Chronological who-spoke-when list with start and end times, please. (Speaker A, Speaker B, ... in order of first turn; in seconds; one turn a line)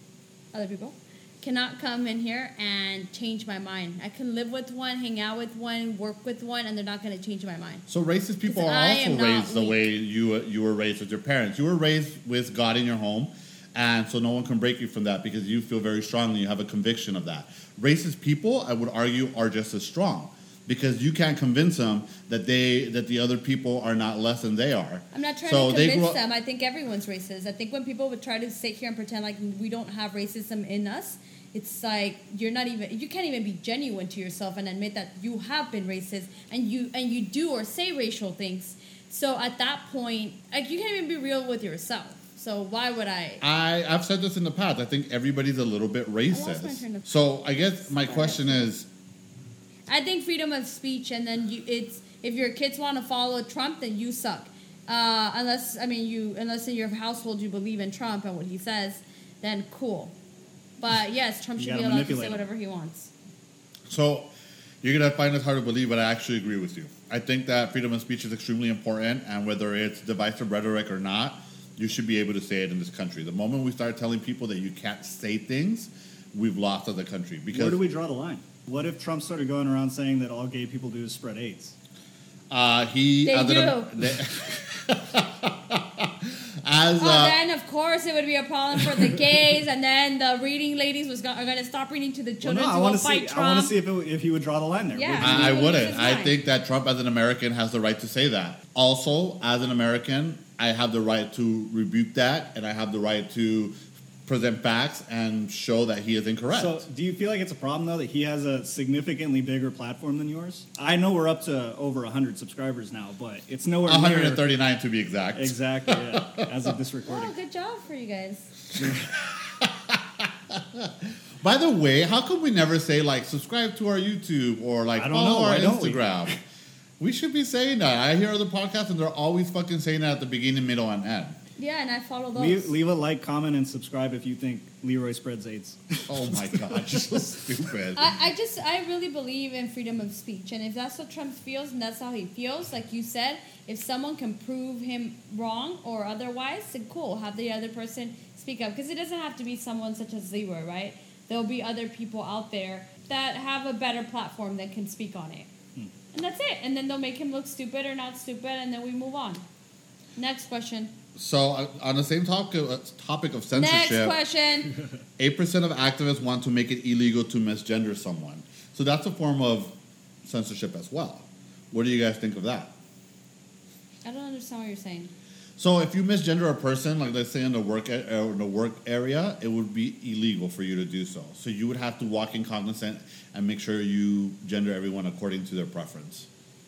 Speaker A: 0.5-7.8
Speaker B: 7.9-26.2
Speaker A: 8.5-9.8
Speaker A: 25.1-43.4
Speaker B: 43.4-48.9
Speaker A: 46.3-47.1
Speaker A: 47.9-48.7
Speaker A: 49.9-60.1
Speaker A: 60.8-63.1
Speaker C: 61.6-62.4
Speaker B: 63.9-64.3
Speaker B: 64.8-77.8
Speaker C: 77.5-81.8
Speaker B: 82.5-87.4
Speaker A: 83.2-84.1
Speaker A: 87.0-93.7
Speaker C: 92.4-95.8
Speaker A: 94.9-96.3
Speaker B: 95.2-106.8
Speaker C: 106.5-114.4
Speaker B: 113.9-116.7
Speaker C: 115.3-117.3
Speaker A: 117.0-118.5
Speaker B: 118.7-126.3
Speaker C: 125.0-126.3
Speaker B: 127.0-131.4
Speaker A: 131.6-132.7
Speaker C: 132.3-137.4
Speaker B: 136.1-138.1
Speaker A: 137.9-155.5
Speaker A: 156.1-159.4
Speaker A: 160.2-160.9
Speaker B: 161.2-164.2
Speaker A: 163.5-164.7
Speaker B: 165.2-172.7
Speaker A: 174.0-175.1
Speaker B: 175.6-186.3